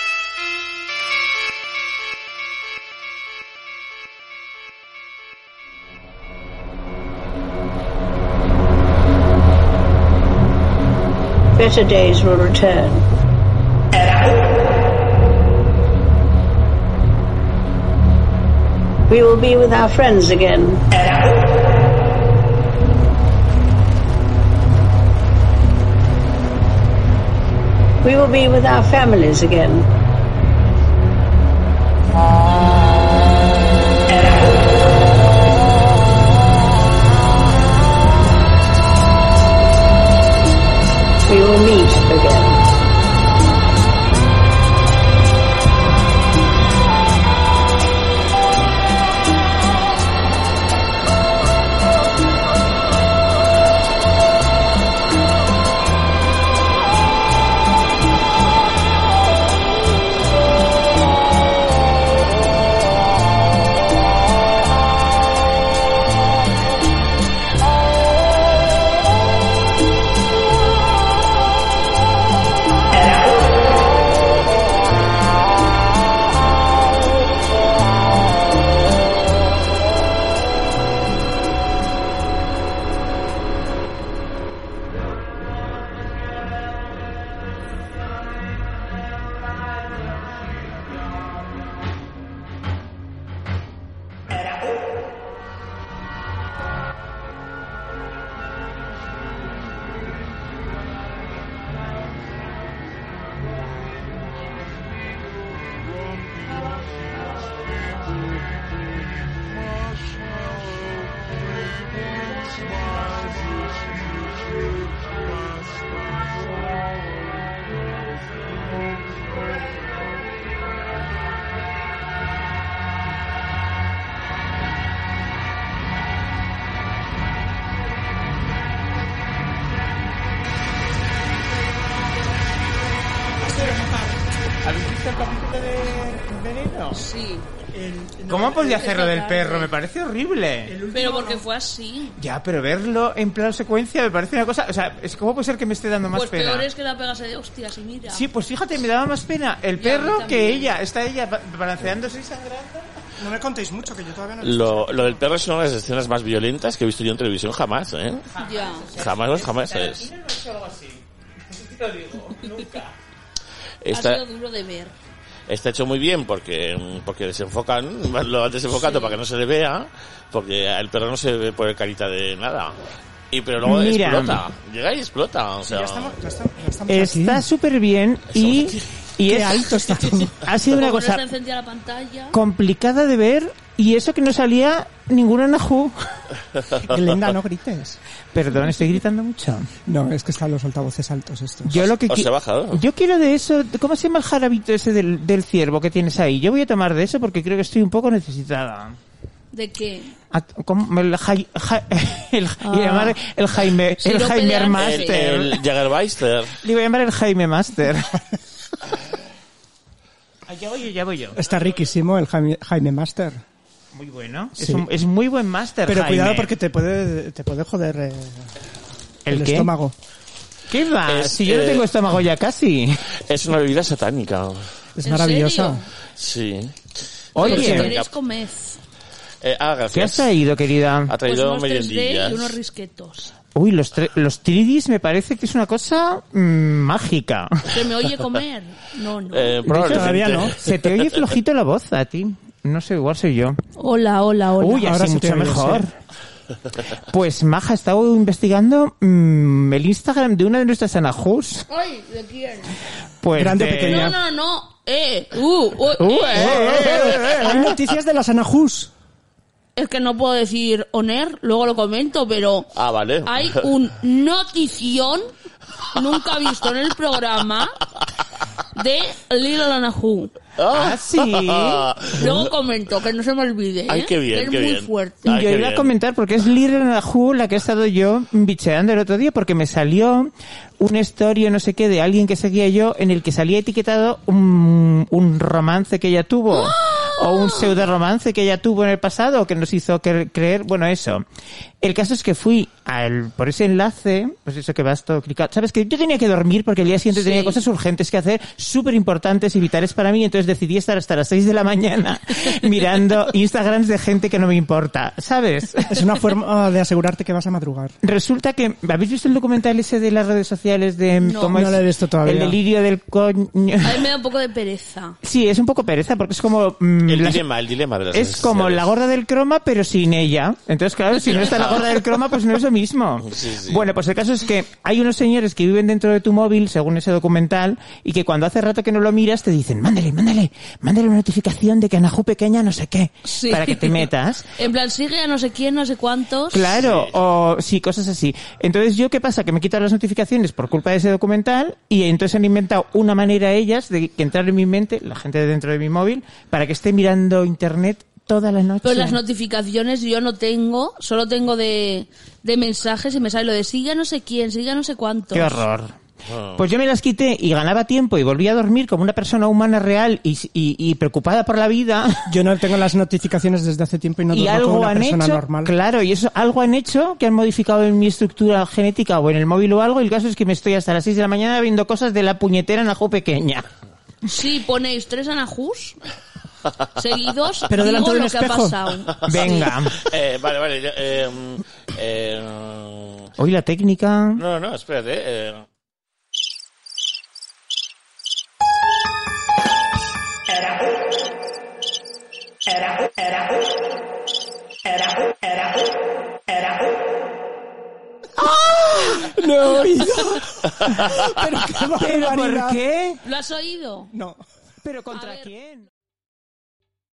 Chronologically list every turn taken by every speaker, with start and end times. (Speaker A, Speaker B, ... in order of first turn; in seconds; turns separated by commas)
Speaker A: 11.6-13.1, Speaker A: 19.1-20.9, Speaker A: 28.0-29.9, Speaker A: 41.3-42.6, Speaker B: 133.4-137.0, Speaker C: 136.9-137.5, Speaker D: 137.7-138.8, Speaker B: 138.3-140.8, Speaker C: 138.7-139.7, Speaker D: 140.7-141.4, Speaker C: 140.9-142.2, Speaker B: 142.2-146.7, Speaker C: 146.1-148.2, Speaker B: 148.1-152.9, Speaker C: 149.8-150.7, Speaker D: 153.2-155.3, Speaker E: 154.4-158.3, Speaker B: 158.3-162.9, Speaker C: 158.4-158.9, Speaker E: 158.9-160.1, Speaker E: 163.8-164.3, Speaker C: 163.9-164.9, Speaker E: 165.5-172.8, Speaker C: 168.7-169.2, Speaker E: 173.3-176.1, Speaker B: 173.6-174.4, Speaker D: 175.7-177.4, Speaker B: 176.9-179.7, Speaker D: 179.3-180.4, Speaker B: 180.4-181.2, Speaker C: 180.7-182.4, Speaker B: 182.3-186.2, Speaker D: 186.8-188.0, Speaker B: 188.3-189.7, Speaker D: 189.9-191.8, Speaker B: 191.7-199.0, Speaker E: 191.8-192.8, Speaker C: 199.5-200.1, Speaker B: 200.3-205.7, Speaker C: 202.6-203.2, Speaker C: 204.0-205.2, Speaker E: 204.8-206.6, Speaker B: 206.6-208.2, Speaker B: 210.5-211.4, Speaker D: 211.3-213.4, Speaker B: 213.9-216.6, Speaker D: 214.6-214.9, Speaker D: 215.9-218.5, Speaker B: 219.3-219.7, Speaker D: 219.3-219.9, Speaker B: 220.7-222.9, Speaker E: 221.1-221.9, Speaker E: 223.2-224.7, Speaker D: 225.0-225.8, Speaker C: 225.0-225.8, Speaker E: 226.2-228.2, Speaker B: 227.3-228.0, Speaker C: 227.4-228.8, Speaker E: 229.4-230.4, Speaker B: 229.9-231.2, Speaker E: 231.1-232.6, Speaker C: 231.2-233.3, Speaker B: 233.6-237.7, Speaker C: 237.7-239.9, Speaker E: 239.3-240.7, Speaker B: 239.6-243.6, Speaker D: 239.9-240.5, Speaker C: 243.8-244.9, Speaker B: 244.6-245.9, Speaker D: 244.8-245.8, Speaker B: 247.0-251.7, Speaker C: 251.7-252.8, Speaker B: 253.2-254.1, Speaker D: 253.4-254.2, Speaker C: 253.8-257.6, Speaker B: 256.0-257.8, Speaker D: 256.3-258.9, Speaker C: 259.8-265.3, Speaker E: 262.7-263.7, Speaker C: 265.9-267.8, Speaker C: 268.8-270.4, Speaker E: 270.6-272.5, Speaker B: 270.7-272.5, Speaker C: 272.1-275.4, Speaker E: 273.9-275.9, Speaker B: 275.3-291.2, Speaker C: 286.5-287.8, Speaker B: 291.8-306.2, Speaker C: 297.1-297.6, Speaker D: 305.9-307.9, Speaker B: 308.0-314.0, Speaker C: 311.2-311.7, Speaker D: 311.5-312.6, Speaker C: 313.8-315.2, Speaker B: 315.2-317.4, Speaker E: 317.1-318.9, Speaker B: 318.1-334.6, Speaker E: 323.2-323.8, Speaker C: 333.2-336.8, Speaker B: 336.5-349.2, Speaker E: 336.8-337.1, Speaker C: 348.8-355.6, Speaker B: 355.3-362.4, Speaker E: 356.3-356.6, Speaker D: 362.3-365.7, Speaker B: 364.3-373.6, Speaker C: 374.3-376.0, Speaker C: 376.9-379.8, Speaker D: 377.7-378.9, Speaker B: 379.2-380.0, Speaker E: 379.9-383.3, Speaker B: 383.4-384.4, Speaker E: 384.4-385.7, Speaker B: 398.4-399.2, Speaker D: 399.0-402.8, Speaker B: 402.0-403.2, Speaker C: 403.2-404.1, Speaker D: 404.1-404.4, Speaker B: 404.8-405.9, Speaker C: 405.1-405.5